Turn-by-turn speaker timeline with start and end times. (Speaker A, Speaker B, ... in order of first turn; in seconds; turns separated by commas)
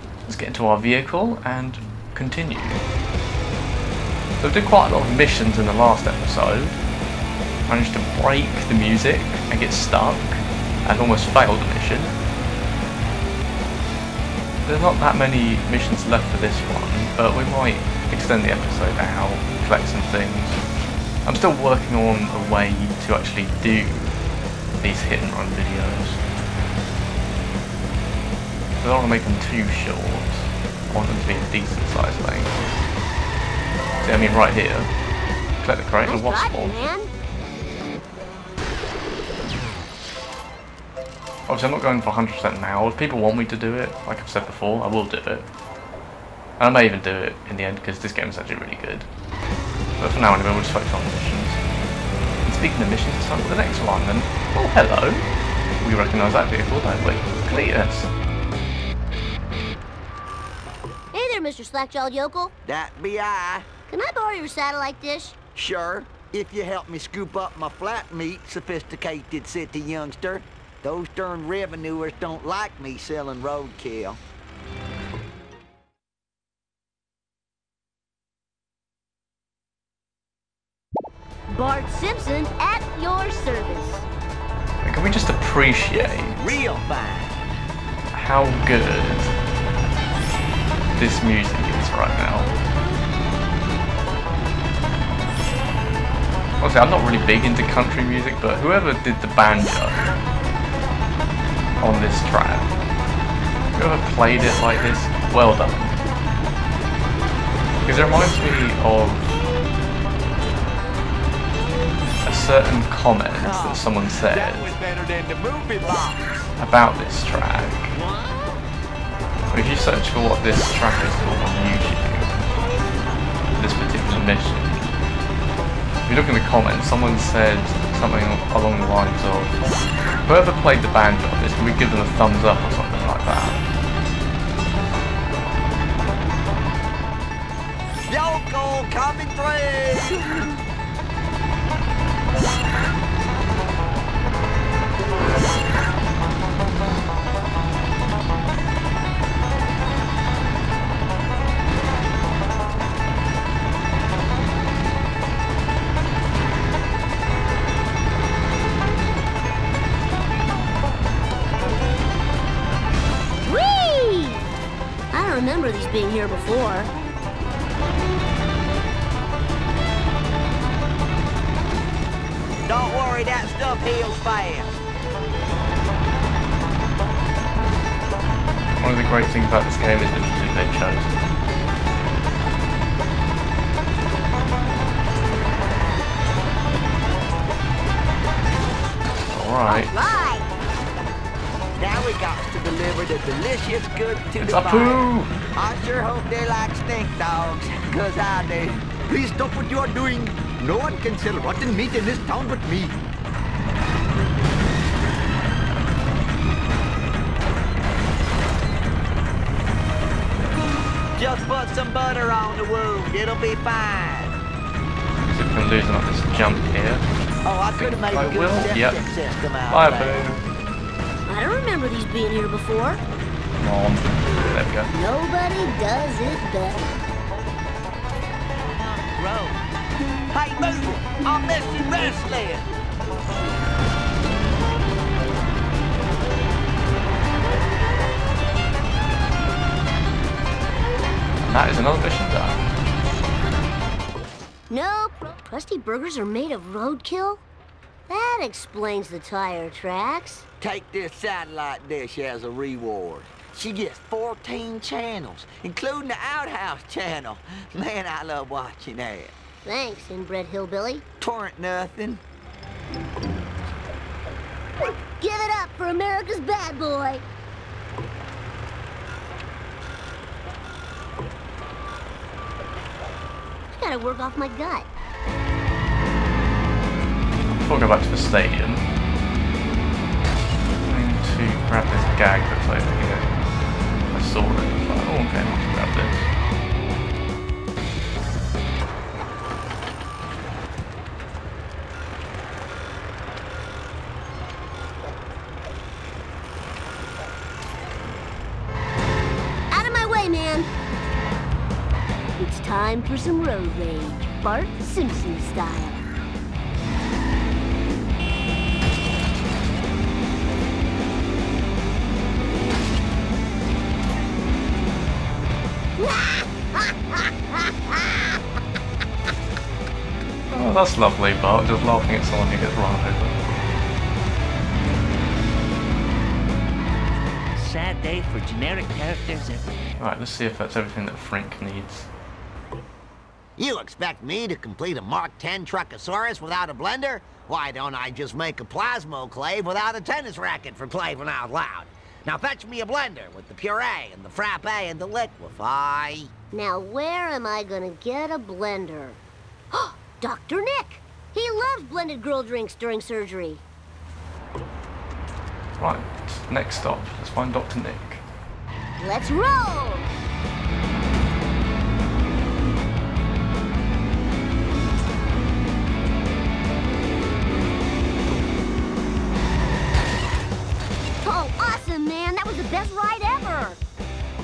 Speaker A: 0.2-2.8, Speaker A: 4.4-6.8, Speaker A: 7.7-12.1, Speaker A: 14.6-20.6, Speaker A: 21.2-24.1, Speaker A: 24.8-26.2, Speaker A: 28.8-32.6, Speaker A: 34.0-34.9, Speaker A: 35.6-36.8, Speaker B: 36.0-37.1, Speaker A: 41.5-45.5, Speaker A: 46.6-49.1, Speaker A: 50.0-51.6, Speaker A: 52.4-55.2, Speaker A: 55.8-58.1, Speaker B: 61.1-62.5, Speaker C: 62.6-63.7, Speaker B: 63.9-65.3, Speaker C: 65.5-74.2, Speaker B: 81.5-84.0, Speaker A: 84.8-86.5, Speaker C: 86.4-87.4, Speaker A: 88.1-89.3, Speaker A: 91.0-92.5, Speaker A: 96.6-100.0, Speaker A: 101.8-102.7, Speaker A: 103.7-106.0, Speaker A: 107.8-109.3, Speaker A: 112.2-114.7, Speaker C: 113.3-116.5, Speaker A: 116.6-118.0, Speaker D: 118.0-118.6, Speaker A: 119.5-122.3, Speaker A: 123.5-124.9, Speaker A: 126.1-129.6, Speaker A: 130.2-133.6, Speaker C: 138.1-140.3, Speaker B: 163.4-164.4, Speaker B: 165.1-166.9, Speaker C: 172.6-174.8, Speaker A: 178.8-181.3, Speaker A: 189.3-190.1, Speaker B: 189.7-190.5, Speaker C: 191.8-202.9, Speaker A: 194.4-195.3, Speaker C: 211.2-214.3, Speaker A: 215.3-217.1, Speaker C: 217.4-220.3, Speaker A: 217.7-219.0, Speaker A: 219.7-220.4, Speaker B: 221.3-223.0, Speaker A: 223.6-224.9, Speaker B: 224.9-226.8, Speaker D: 228.8-229.6, Speaker C: 230.3-232.7, Speaker A: 241.5-242.6, Speaker B: 244.7-247.4, Speaker B: 248.1-250.4, Speaker C: 250.6-259.3, Speaker B: 259.6-261.0, Speaker C: 261.2-262.2, Speaker B: 265.2-267.2, Speaker B: 273.8-274.9, Speaker A: 277.6-278.8, Speaker A: 280.9-283.3, Speaker A: 284.1-286.3, Speaker B: 299.7-300.7, Speaker B: 302.4-306.1, Speaker B: 316.0-318.4, Speaker A: 320.5-323.4, Speaker D: 327.5-330.0, Speaker A: 330.0-332.1, Speaker E: 333.6-346.3, Speaker B: 346.5-349.2, Speaker B: 349.7-353.6, Speaker A: 355.8-358.2, Speaker B: 359.0-360.1, Speaker B: 371.2-373.8